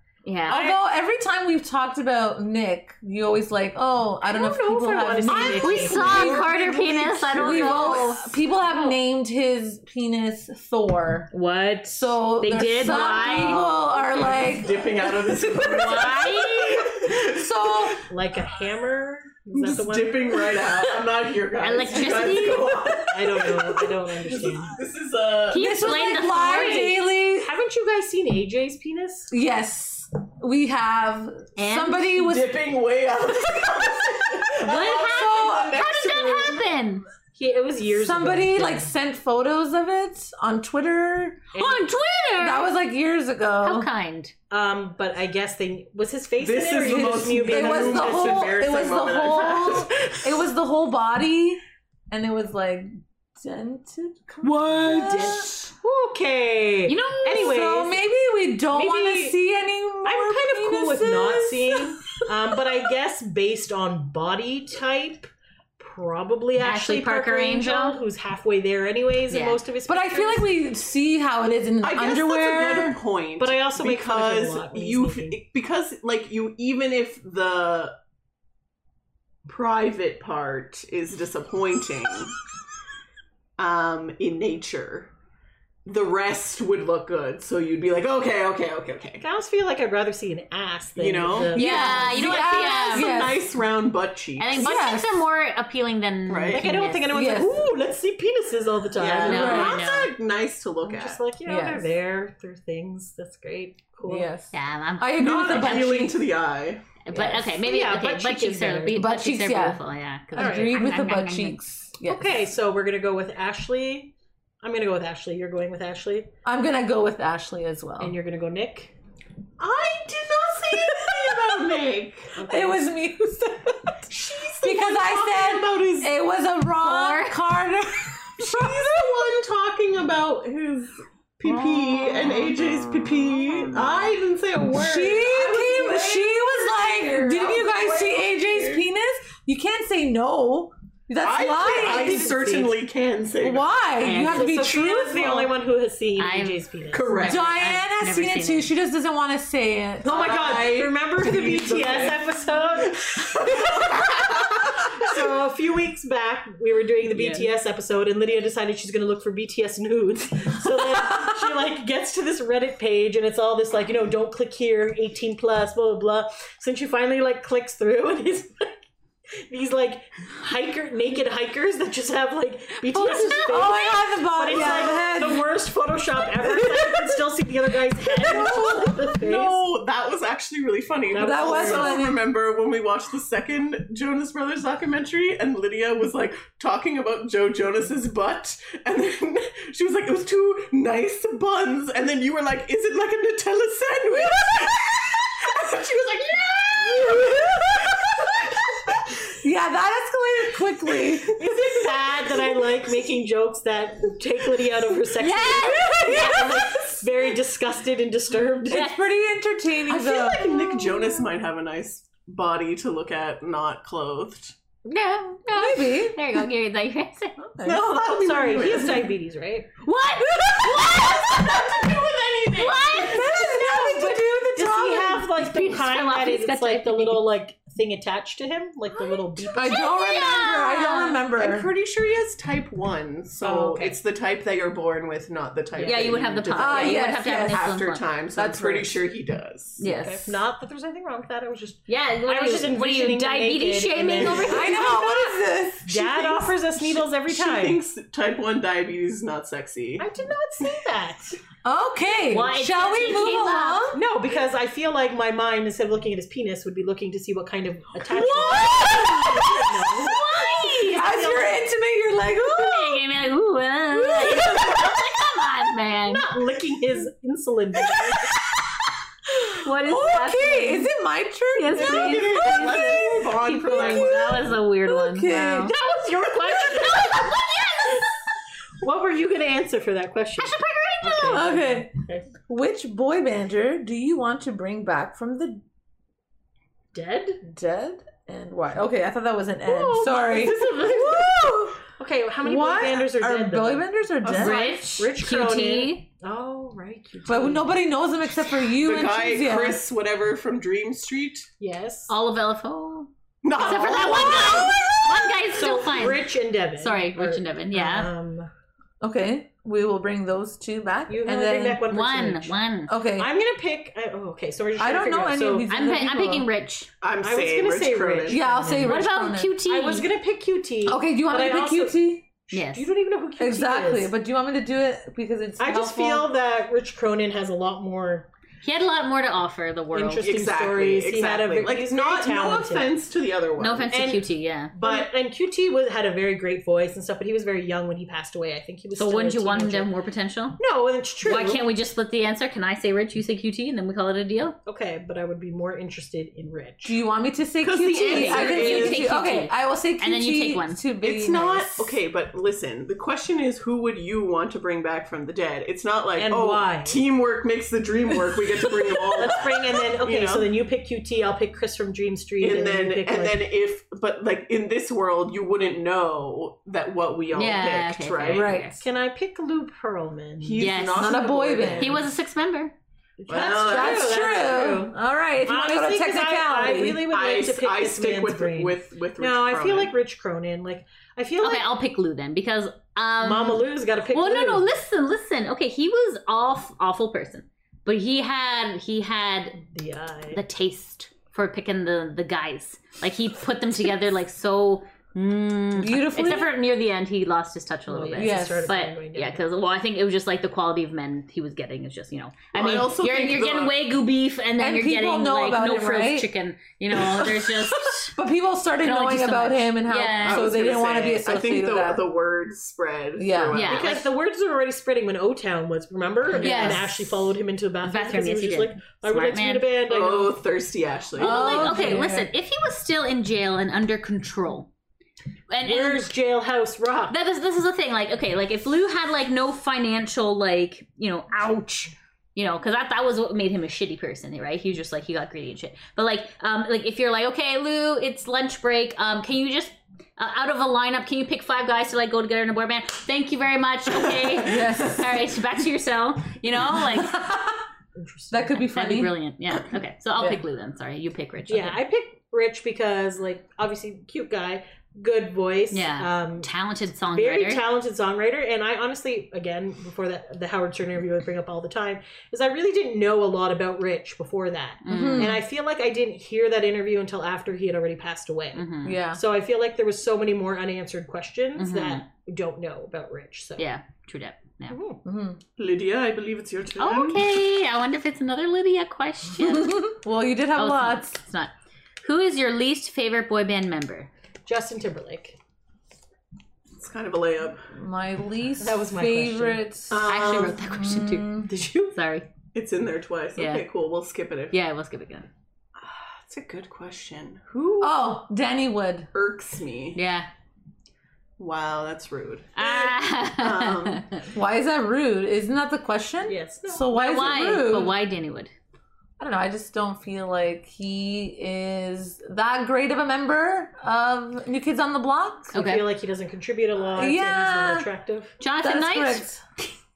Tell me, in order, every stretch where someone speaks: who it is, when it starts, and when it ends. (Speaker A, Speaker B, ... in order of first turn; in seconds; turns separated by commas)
Speaker A: 0.2-0.7, Speaker B: 0.5-6.5, Speaker C: 0.5-0.8, Speaker C: 4.2-6.3, Speaker A: 5.2-8.3, Speaker D: 5.9-8.2, Speaker B: 7.3-11.3, Speaker C: 8.7-9.0, Speaker A: 11.3-13.7, Speaker B: 11.9-16.1, Speaker D: 12.8-18.0, Speaker A: 15.6-16.9, Speaker B: 17.0-18.0, Speaker C: 18.1-20.5, Speaker D: 19.5-25.8, Speaker A: 21.6-22.8, Speaker B: 22.8-23.6, Speaker C: 23.1-24.8, Speaker A: 25.5-26.9, Speaker B: 25.5-27.5, Speaker C: 26.3-29.3, Speaker B: 29.3-32.5, Speaker A: 31.6-32.1, Speaker D: 32.1-36.7, Speaker A: 34.6-37.0, Speaker B: 34.6-35.8, Speaker C: 37.3-38.9, Speaker B: 37.9-41.5, Speaker C: 41.5-41.9, Speaker A: 41.5-42.7, Speaker B: 42.4-43.9, Speaker A: 43.6-44.3, Speaker C: 44.5-48.8, Speaker D: 46.4-50.2, Speaker B: 46.8-55.6, Speaker C: 54.6-58.0, Speaker A: 56.9-57.6, Speaker B: 57.3-62.0, Speaker C: 58.7-59.4, Speaker C: 60.0-70.5, Speaker A: 66.6-68.0, Speaker A: 69.3-69.6, Speaker B: 69.9-73.0, Speaker D: 71.8-78.0, Speaker C: 73.4-75.4, Speaker D: 79.5-82.3, Speaker D: 83.6-85.1, Speaker D: 85.8-89.2, Speaker C: 89.2-92.5, Speaker D: 91.0-91.6, Speaker A: 91.5-93.2, Speaker B: 91.5-93.5, Speaker D: 92.2-94.7, Speaker A: 94.4-97.1, Speaker B: 94.6-95.2, Speaker D: 96.3-96.7, Speaker C: 96.5-99.8, Speaker B: 97.1-97.6, Speaker D: 99.0-101.2, Speaker A: 99.2-100.1, Speaker B: 99.2-99.8, Speaker C: 100.8-104.3, Speaker B: 101.5-101.9, Speaker B: 104.0-106.2, Speaker A: 104.5-105.8, Speaker D: 105.2-106.8, Speaker A: 107.0-111.6, Speaker C: 107.1-109.1, Speaker B: 108.9-109.8, Speaker B: 110.3-112.4, Speaker C: 110.4-110.8, Speaker C: 112.1-116.3, Speaker B: 116.4-118.2, Speaker C: 118.0-118.9, Speaker D: 119.6-122.4, Speaker C: 122.3-122.8, Speaker B: 122.4-123.9, Speaker D: 124.1-126.1, Speaker B: 124.6-129.1, Speaker A: 126.8-127.3, Speaker D: 128.4-138.8, Speaker B: 134.7-142.3, Speaker D: 141.2-143.7, Speaker C: 141.6-142.8, Speaker B: 143.4-145.5, Speaker A: 144.0-144.6, Speaker C: 144.2-147.5, Speaker A: 146.2-146.6, Speaker D: 146.9-147.5, Speaker B: 147.2-150.1, Speaker A: 147.3-148.7, Speaker C: 150.0-153.4, Speaker D: 150.0-152.2, Speaker D: 152.8-155.2, Speaker C: 154.9-168.8, Speaker D: 157.2-157.4, Speaker C: 169.5-179.6, Speaker A: 172.9-174.8, Speaker B: 172.9-175.5, Speaker D: 178.2-199.1, Speaker B: 178.2-178.9, Speaker C: 181.1-182.0, Speaker B: 181.2-182.2, Speaker B: 197.0-198.0, Speaker B: 199.4-201.3, Speaker D: 201.0-202.3, Speaker C: 201.4-208.9, Speaker A: 205.2-206.8, Speaker B: 205.7-207.0, Speaker B: 208.7-210.5, Speaker D: 209.8-214.5, Speaker A: 214.8-217.4, Speaker B: 215.5-216.2, Speaker B: 217.5-217.8, Speaker D: 217.6-219.1, Speaker C: 218.0-219.7, Speaker A: 219.8-221.4, Speaker B: 220.2-221.6, Speaker D: 220.7-223.2, Speaker A: 222.5-223.3, Speaker B: 222.8-225.4, Speaker C: 223.2-230.5, Speaker A: 225.4-227.2, Speaker A: 228.9-231.2, Speaker B: 229.5-231.7, Speaker D: 231.3-239.8, Speaker C: 233.4-234.0, Speaker C: 235.7-236.2, Speaker A: 235.8-238.0, Speaker B: 236.5-237.7, Speaker B: 238.3-238.9, Speaker A: 239.8-240.3, Speaker C: 239.9-247.8, Speaker B: 239.9-240.2, Speaker A: 241.9-245.0, Speaker B: 244.2-246.5, Speaker D: 246.8-250.1, Speaker C: 250.0-251.4, Speaker B: 251.6-254.0, Speaker A: 252.3-253.9, Speaker C: 253.9-260.2, Speaker B: 258.1-263.0, Speaker A: 260.0-261.0, Speaker C: 260.8-261.7, Speaker A: 262.4-266.3, Speaker B: 263.9-265.0, Speaker C: 266.1-268.3, Speaker A: 269.6-270.9, Speaker B: 269.7-273.9, Speaker A: 271.5-278.1, Speaker D: 271.7-274.6, Speaker C: 273.7-274.0, Speaker B: 274.8-275.7, Speaker C: 275.7-277.4, Speaker C: 278.8-282.2, Speaker A: 280.4-281.5, Speaker B: 281.3-281.9, Speaker B: 282.5-285.6, Speaker C: 286.9-287.4, Speaker B: 287.4-291.8, Speaker D: 289.7-291.5, Speaker C: 292.0-293.9, Speaker B: 292.4-294.8, Speaker D: 294.2-294.7, Speaker A: 294.3-296.0, Speaker C: 294.4-297.7, Speaker B: 297.2-299.8, Speaker D: 298.8-301.5, Speaker C: 301.6-302.1, Speaker A: 302.1-308.1, Speaker D: 303.4-305.3, Speaker C: 305.5-308.5, Speaker B: 309.0-311.8, Speaker C: 311.1-312.6, Speaker A: 311.9-312.9, Speaker B: 312.9-313.3, Speaker C: 313.1-315.7, Speaker B: 314.8-316.5, Speaker A: 315.7-316.9, Speaker D: 317.0-318.5, Speaker C: 317.2-319.1, Speaker B: 318.3-319.6, Speaker A: 318.8-320.1, Speaker C: 319.6-324.1, Speaker B: 320.9-322.2, Speaker A: 322.5-322.9, Speaker B: 323.4-326.3, Speaker C: 325.6-328.3, Speaker A: 328.6-330.3, Speaker C: 329.9-332.9, Speaker D: 330.2-334.0, Speaker A: 333.6-334.7, Speaker C: 333.9-339.9, Speaker D: 334.8-335.1, Speaker A: 338.9-340.6, Speaker C: 340.6-341.7, Speaker A: 341.2-344.6, Speaker C: 344.6-346.9, Speaker B: 346.8-351.9, Speaker D: 347.6-349.1, Speaker A: 347.9-350.8, Speaker D: 351.0-360.5, Speaker C: 356.2-357.0, Speaker C: 359.2-363.4, Speaker D: 362.4-368.5, Speaker A: 367.3-368.8, Speaker B: 368.3-368.8, Speaker C: 368.8-370.7, Speaker D: 370.4-372.1, Speaker A: 370.6-371.2, Speaker B: 370.9-372.0, Speaker A: 371.8-372.7, Speaker C: 373.2-381.7, Speaker D: 373.3-374.4, Speaker B: 373.4-377.1, Speaker D: 377.1-379.9, Speaker A: 381.4-389.6, Speaker C: 383.2-384.7, Speaker C: 389.6-390.4, Speaker A: 390.3-408.1, Speaker B: 395.8-396.5, Speaker C: 397.9-399.4, Speaker B: 398.1-398.8, Speaker D: 402.5-403.8, Speaker B: 404.6-406.3, Speaker B: 406.9-412.0, Speaker A: 408.8-410.5, Speaker D: 410.2-413.9, Speaker B: 413.2-413.6, Speaker A: 413.5-414.1, Speaker C: 413.6-420.4, Speaker A: 416.3-417.2, Speaker B: 416.4-416.8, Speaker A: 417.8-419.7, Speaker D: 419.9-421.7, Speaker B: 421.2-422.3, Speaker A: 421.2-424.7, Speaker C: 421.4-422.2, Speaker A: 425.5-426.1, Speaker C: 425.6-427.1, Speaker A: 427.1-447.2, Speaker B: 444.4-445.2, Speaker B: 447.0-447.5, Speaker C: 447.9-448.6, Speaker B: 448.3-449.1, Speaker A: 448.7-451.8, Speaker C: 451.5-456.5, Speaker A: 455.7-457.6, Speaker C: 457.1-473.6, Speaker A: 464.8-465.4, Speaker B: 464.9-465.4, Speaker A: 468.5-469.0, Speaker B: 468.8-469.2, Speaker A: 471.6-472.0, Speaker A: 473.6-474.8, Speaker C: 474.7-475.0, Speaker B: 475.0-475.4, Speaker D: 475.6-477.2, Speaker A: 476.8-479.9, Speaker B: 479.4-481.2, Speaker A: 480.5-481.5, Speaker A: 482.0-484.1, Speaker C: 484.4-485.4, Speaker D: 486.7-487.7, Speaker B: 487.7-491.5, Speaker C: 488.6-489.6, Speaker D: 489.9-490.6, Speaker A: 490.1-492.3, Speaker C: 491.5-491.9, Speaker D: 492.5-494.6, Speaker A: 493.4-493.6, Speaker A: 494.5-495.3, Speaker D: 495.8-497.9, Speaker B: 497.8-499.1, Speaker D: 499.1-500.0, Speaker A: 499.9-500.3, Speaker D: 501.4-504.1, Speaker A: 502.6-504.2, Speaker B: 504.3-507.9, Speaker C: 506.2-507.2, Speaker A: 506.9-508.5, Speaker B: 509.2-515.6, Speaker A: 515.5-515.9, Speaker C: 515.5-518.3, Speaker B: 517.0-517.9, Speaker A: 518.4-519.3, Speaker B: 518.6-519.4